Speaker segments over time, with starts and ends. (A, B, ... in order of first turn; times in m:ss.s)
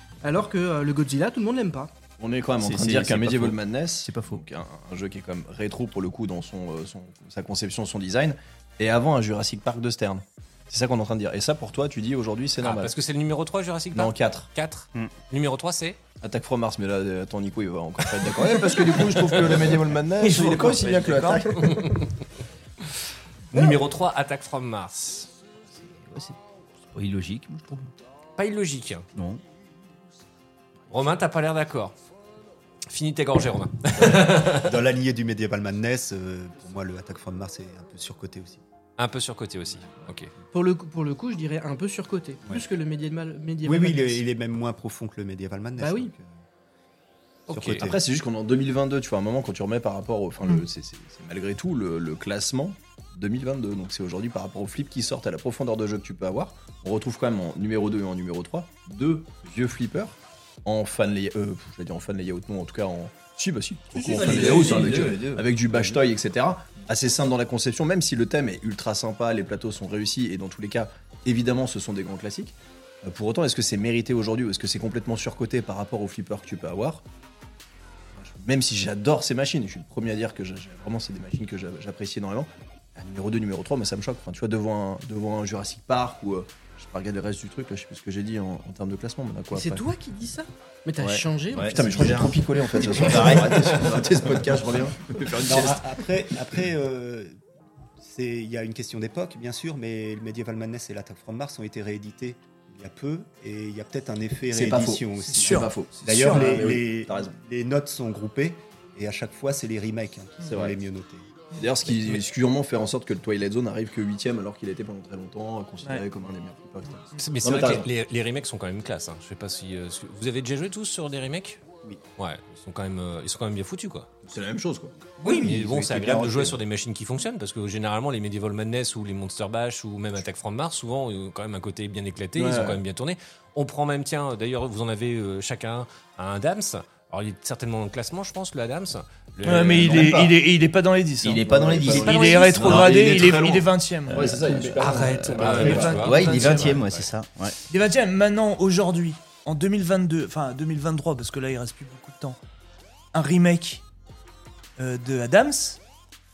0:00.2-0:01.9 A
0:02.2-0:13.0 B
0:02.6-0:04.4 C
0:12.6-0:16.0 D
0:13.9-0:14.5 B
0:16.2-0:21.9 B
0:18.1-0:19.6 D
0:20.2-0:21.5 E
0:21.3-0:22.2 D
0:23.5-0:25.3 D
0:25.7-0:27.9 C
0:28.4-0:29.1 D
0:29.2-0:29.4 C
0:30.9-0:32.0 D
0:32.9-0:34.8 D
0:34.0-0:38.6 F
0:39.0-0:40.3 D
0:40.5-0:44.2 A
0:43.6-0:46.3 F
0:45.8-0:46.1 A
0:47.5-0:47.9 D
0:47.5-1:17.0 B
1:03.9-1:06.0 C
1:18.2-1:29.8 B
1:29.5-1:32.3 A
1:31.0-1:36.0 B
1:31.5-1:34.0 C
1:35.4-1:37.4 F
1:38.0-1:51.4 F
1:44.5-1:47.3 B
1:45.3-1:46.6 E
1:50.5-1:50.8 B
1:51.6-1:57.9 B
1:57.2-2:01.6 D
2:02.2-2:04.1 D
2:04.2-2:05.0 B
2:05.2-2:06.6 F
2:05.2-2:20.2 D
2:12.4-2:12.8 B
2:19.4-2:24.4 E
2:19.9-2:20.3 B
2:21.2-2:23.0 C
2:21.4-2:26.7 B
2:24.1-2:27.6 C
2:24.8-2:27.1 D
2:26.1-2:26.6 E
2:27.7-2:32.4 E
2:33.1-2:33.8 E
2:34.8-2:35.8 E